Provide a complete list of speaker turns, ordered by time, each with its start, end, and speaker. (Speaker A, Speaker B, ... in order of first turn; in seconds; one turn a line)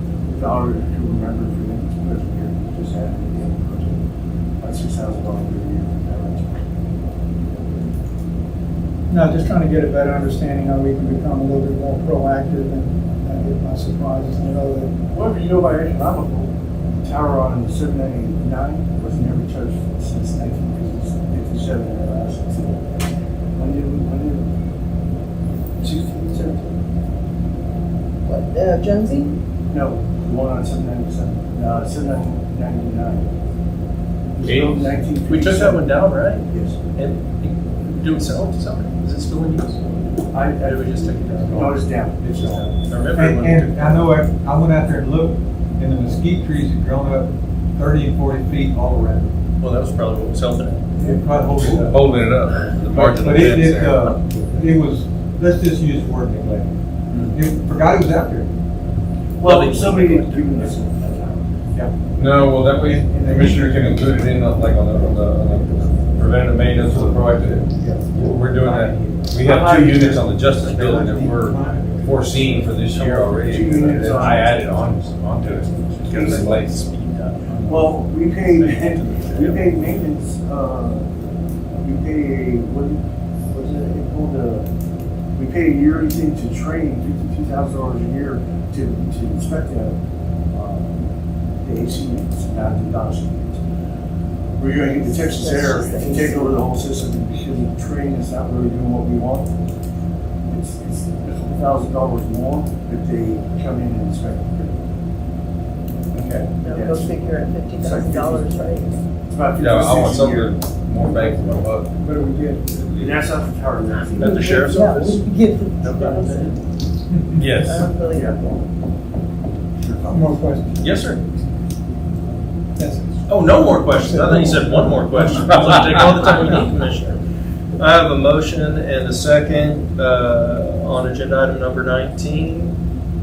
Speaker A: 0.3-4.0
Speaker A: 4.6-6.7
Speaker B: 9.1-15.0
Speaker A: 15.1-16.5
Speaker A: 17.0-23.0
Speaker A: 23.6-24.5
Speaker A: 25.8-26.8
Speaker C: 28.2-29.4
Speaker A: 29.7-33.3
Speaker A: 34.4-35.9
Speaker D: 34.4-35.0
Speaker E: 35.2-40.0
Speaker A: 36.5-36.8
Speaker A: 40.3-44.0
Speaker E: 40.5-41.9
Speaker F: 42.3-49.3
Speaker E: 42.9-43.5
Speaker E: 49.6-50.9
Speaker A: 51.0-51.9
Speaker F: 51.0-52.0
Speaker D: 51.6-54.1
Speaker F: 52.9-58.5
Speaker A: 59.4-61.7
Speaker E: 59.4-60.7
Speaker D: 62.1-76.8
Speaker F: 62.8-69.3
Speaker A: 69.4-70.3
Speaker F: 70.5-72.8
Speaker E: 72.9-74.5
Speaker A: 73.5-74.8
Speaker E: 75.5-79.7
Speaker A: 76.1-76.5
Speaker A: 77.6-81.1
Speaker A: 81.8-84.7
Speaker A: 85.3-90.0
Speaker A: 90.5-91.1
Speaker A: 91.6-93.6
Speaker A: 94.6-99.5
Speaker C: 94.8-96.6
Speaker A: 100.5-104.8
Speaker A: 106.1-110.5
Speaker C: 106.6-109.0
Speaker D: 109.5-111.9
Speaker B: 112.0-112.8
Speaker A: 112.8-114.8
Speaker E: 114.2-115.2
Speaker C: 114.6-116.6
Speaker E: 115.8-116.5
Speaker D: 117.3-117.9
Speaker C: 117.6-118.6
Speaker A: 118.0-118.4
Speaker A: 119.8-120.3
Speaker B: 120.1-120.9
Speaker E: 120.8-121.2
Speaker B: 122.8-123.2
Speaker E: 123.3-127.2
Speaker B: 124.0-125.4
Speaker D: 125.5-126.0
Speaker E: 127.8-132.8